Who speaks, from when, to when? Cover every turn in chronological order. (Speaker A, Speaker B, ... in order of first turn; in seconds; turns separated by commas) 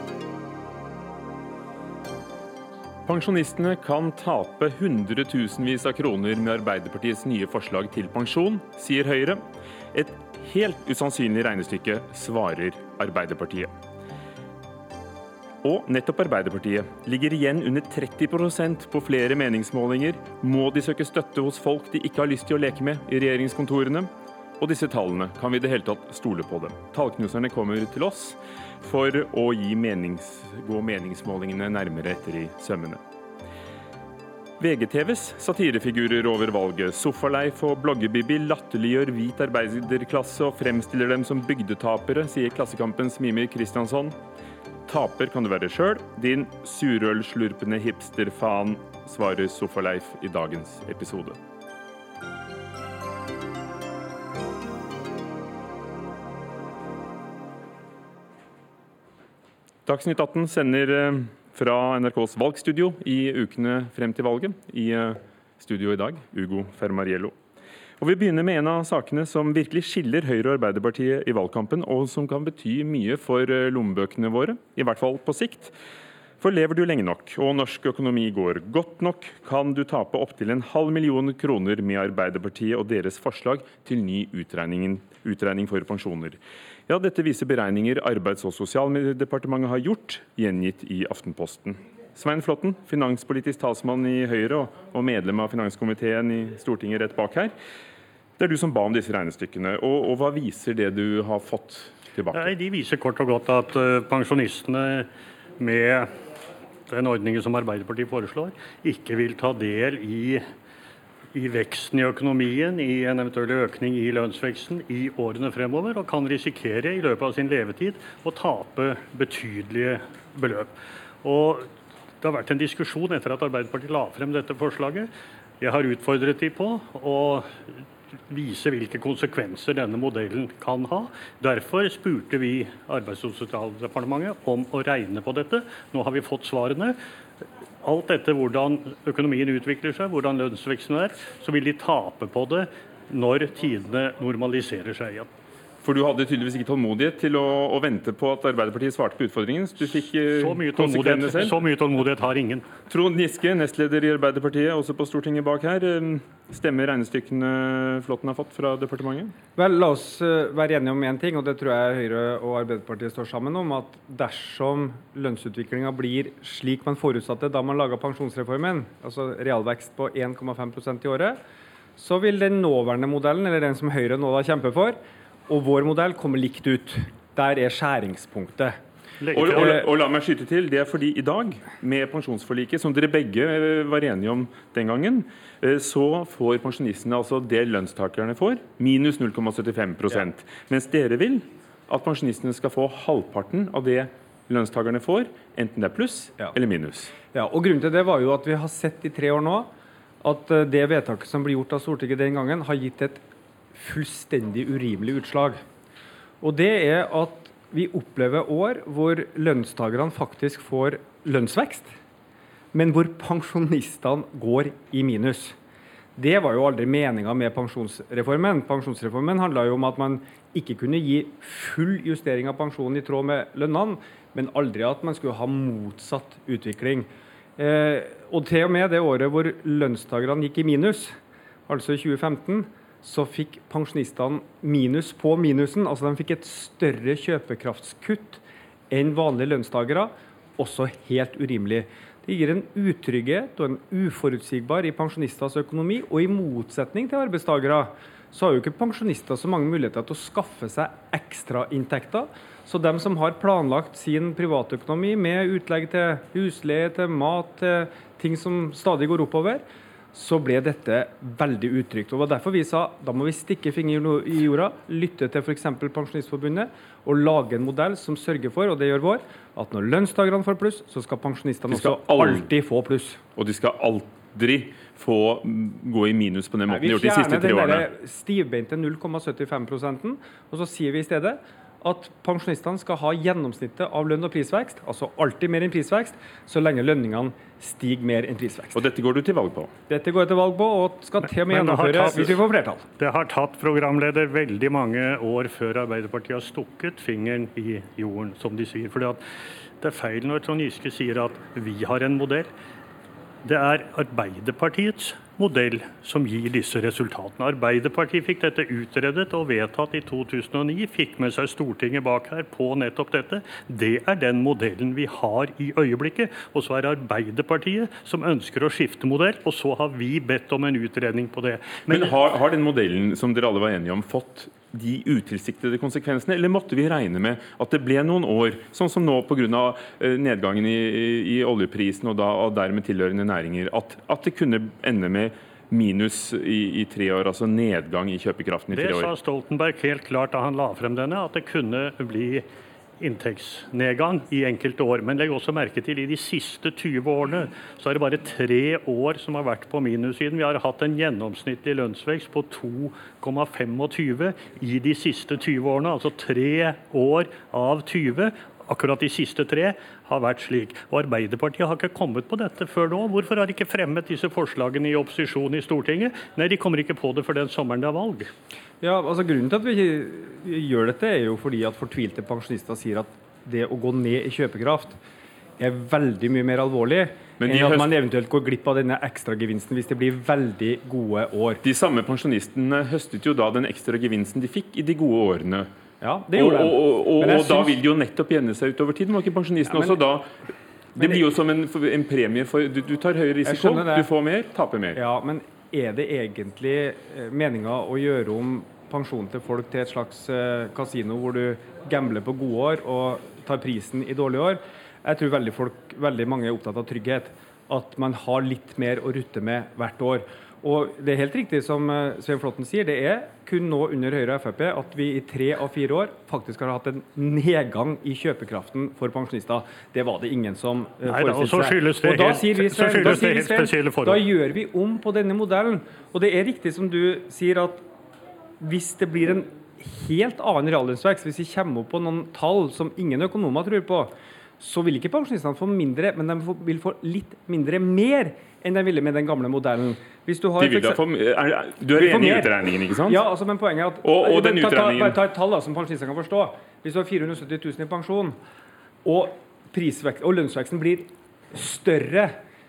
Speaker A: 3.0-13.7, Speaker A: 15.6-33.0, Speaker A: 34.6-44.2, Speaker A: 44.9-51.4, Speaker A: 59.9-67.3, Speaker A: 68.0-75.7, Speaker A: 76.4-97.5, Speaker A: 98.4-102.5, Speaker B: 102.3-106.1, Speaker B: 106.9-110.4, Speaker B: 111.3-120.7, Speaker B: 121.2-121.7, Speaker B: 122.2-125.1, Speaker B: 125.6-127.7, Speaker B: 128.3-136.9, Speaker B: 137.8-145.3, Speaker A: 145.8-151.6, Speaker B: 150.3-152.6, Speaker A: 152.9-159.3, Speaker C: 159.6-171.4, Speaker C: 172.0-178.8, Speaker B: 179.2-179.9, Speaker A: 179.3-197.1, Speaker C: 179.5-179.7, Speaker C: 197.3-199.7, Speaker C: 200.2-203.2, Speaker C: 203.7-205.6, Speaker C: 206.4-211.9, Speaker C: 212.7-215.6, Speaker C: 216.2-273.2, Speaker A: 271.7-272.4, Speaker A: 273.4-277.9, Speaker C: 276.7-288.8, Speaker A: 288.7-289.7, Speaker C: 289.9-292.9, Speaker B: 291.2-292.4, Speaker B: 293.0-299.2, Speaker B: 299.8-302.5, Speaker B: 303.4-322.2, Speaker A: 321.9-339.1, Speaker B: 338.7-342.4, Speaker B: 343.0-368.3, Speaker C: 368.8-375.0, Speaker C: 375.6-381.6, Speaker A: 377.4-377.9, Speaker A: 381.6-385.7, Speaker C: 386.0-387.8, Speaker A: 386.3-390.3, Speaker C: 389.7-390.0, Speaker C: 391.0-391.2, Speaker A: 391.0-395.0, Speaker C: 393.4-394.1, Speaker C: 394.9-427.8, Speaker B: 421.0-424.2, Speaker C: 428.6-441.0, Speaker A: 440.6-443.2, Speaker C: 441.9-442.5, Speaker C: 443.0-448.4, Speaker A: 444.0-445.2, Speaker C: 449.0-452.4